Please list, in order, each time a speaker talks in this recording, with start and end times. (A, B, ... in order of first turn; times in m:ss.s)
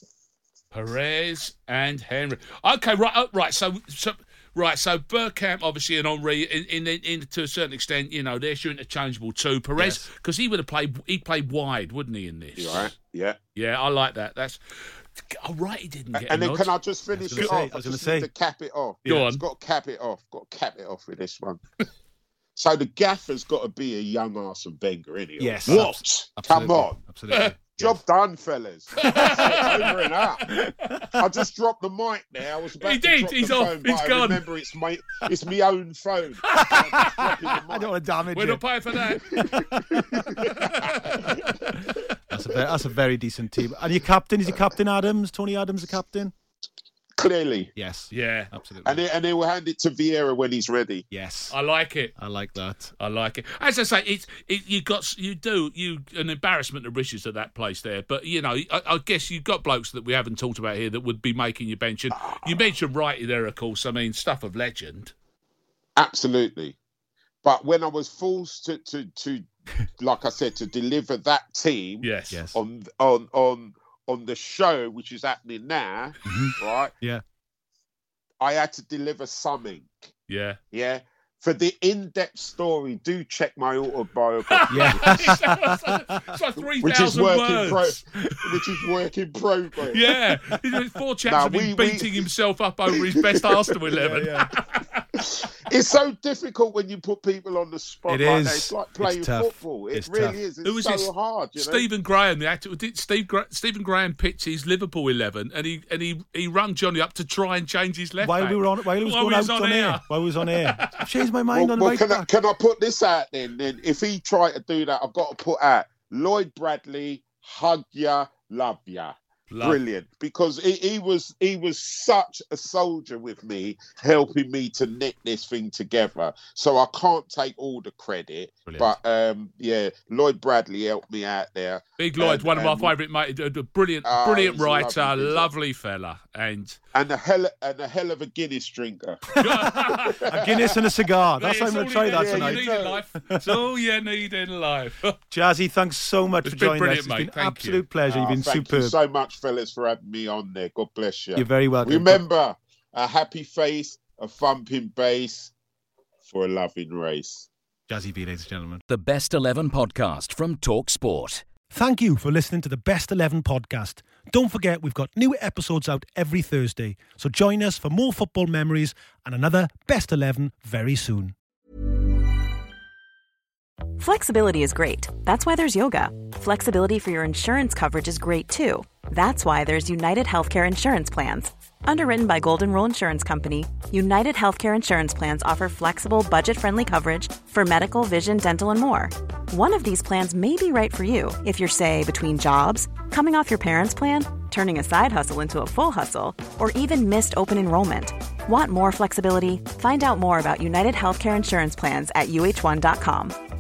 0:00.7-0:12.9 A
0:09.8-0:10.1 B
0:12.6-0:13.4 C
0:13.6-0:16.7 A
0:16.2-0:21.6 C
0:17.1-0:18.3 B
0:17.3-0:17.6 A
0:19.0-0:19.4 B
0:19.1-0:19.4 A
0:22.6-0:27.0 C
0:25.4-0:28.0 B
0:25.7-0:25.9 A
0:27.8-0:30.6 C
0:29.0-0:29.9 A
0:30.5-0:31.2 B
0:31.2-0:37.9 C
0:32.8-0:34.4 A
0:36.6-0:40.5 B
0:38.3-0:39.6 A
0:39.4-0:41.6 C
0:40.6-0:41.3 A
0:41.2-0:46.3 B
0:47.2-0:47.7 C
0:47.8-0:49.0 B
0:48.1-0:48.5 A
0:48.8-0:51.0 C
0:51.1-0:51.6 B
0:51.5-0:52.1 A
0:52.2-0:52.9 B
0:53.0-1:05.1 A
1:02.2-1:02.6 C
1:06.0-1:06.8 C
1:07.4-1:09.5 C
1:10.0-1:16.9 C
1:12.0-1:12.4 A
1:12.3-1:12.6 B
1:16.3-1:17.2 B
1:18.4-1:20.0 C
1:20.3-1:20.6 A
1:20.7-1:25.4 C
1:24.6-1:28.0 A
1:24.7-1:26.1 B
1:26.8-1:30.0 C
1:29.9-1:35.0 A
1:31.3-1:32.1 C
1:33.9-1:34.5 B
1:35.2-1:41.9 C
1:38.1-1:40.4 B
1:40.6-1:51.0 A
1:48.2-1:52.3 B
1:51.5-2:12.9 C
1:59.5-1:59.8 A
2:08.7-2:09.0 B
2:12.0-2:16.8 A
2:14.0-2:15.5 C
2:16.9-2:20.7 C
2:19.4-2:20.2 A
2:20.3-2:23.6 B
2:21.4-2:25.2 A
2:22.1-2:23.0 C
2:25.3-2:29.0 B
2:26.4-2:27.8 A
2:28.1-2:35.5 C
2:31.4-2:32.2 B
2:36.2-2:37.5 C
2:37.9-2:38.8 B
2:38.9-2:41.4 D
2:41.7-2:51.4 B
2:54.0-3:23.4 E